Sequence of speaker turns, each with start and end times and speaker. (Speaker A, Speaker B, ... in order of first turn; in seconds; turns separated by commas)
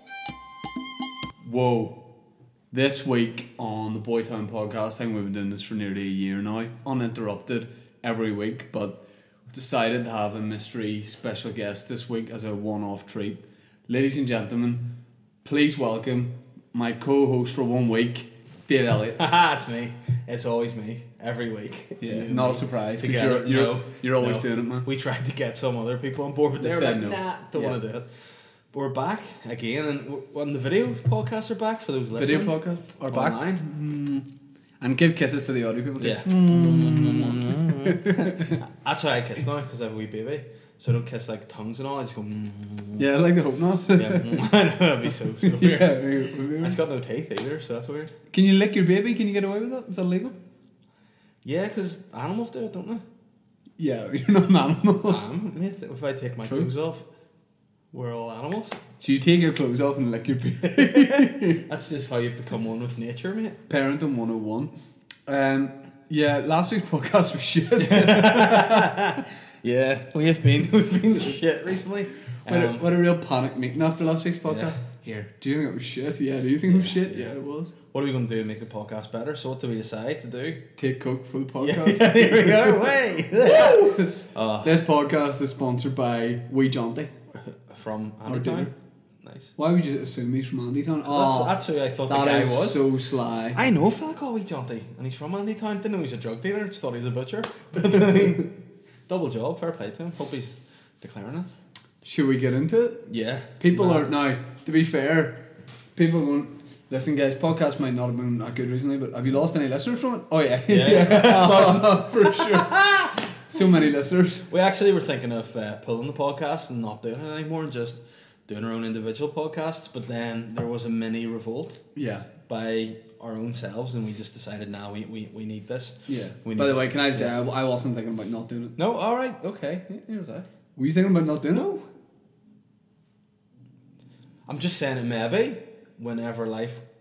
Speaker A: 1.4-2.1, Speaker A: 2.7-19.2, Speaker B: 19.1-28.1, Speaker A: 22.0-24.9, Speaker A: 26.6-27.8, Speaker B: 28.7-33.7, Speaker A: 32.2-34.3, Speaker A: 34.8-38.6, Speaker B: 36.0-43.0, Speaker A: 43.0-44.5, Speaker B: 43.8-48.1, Speaker A: 45.4-46.8, Speaker A: 48.3-50.4, Speaker B: 51.4-53.0, Speaker A: 53.8-55.2, Speaker B: 55.0-57.1, Speaker A: 56.4-56.7, Speaker B: 57.9-58.8, Speaker A: 59.0-61.6, Speaker B: 60.8-63.6, Speaker A: 63.7-64.7, Speaker A: 65.2-69.2, Speaker B: 67.8-72.9, Speaker A: 72.5-77.7, Speaker B: 74.5-74.8, Speaker B: 76.7-77.3, Speaker B: 77.9-80.7, Speaker A: 80.8-87.1, Speaker B: 81.6-84.8, Speaker B: 87.3-89.5, Speaker A: 88.2-88.7, Speaker A: 89.6-93.7, Speaker B: 91.0-92.8, Speaker B: 93.5-98.5, Speaker B: 99.1-101.5, Speaker A: 102.0-114.5, Speaker B: 103.1-104.1, Speaker B: 110.7-113.1, Speaker B: 114.5-121.8, Speaker A: 121.9-122.3, Speaker B: 122.5-127.4, Speaker A: 126.1-128.8, Speaker B: 128.8-130.4, Speaker A: 130.8-131.8, Speaker B: 134.5-136.8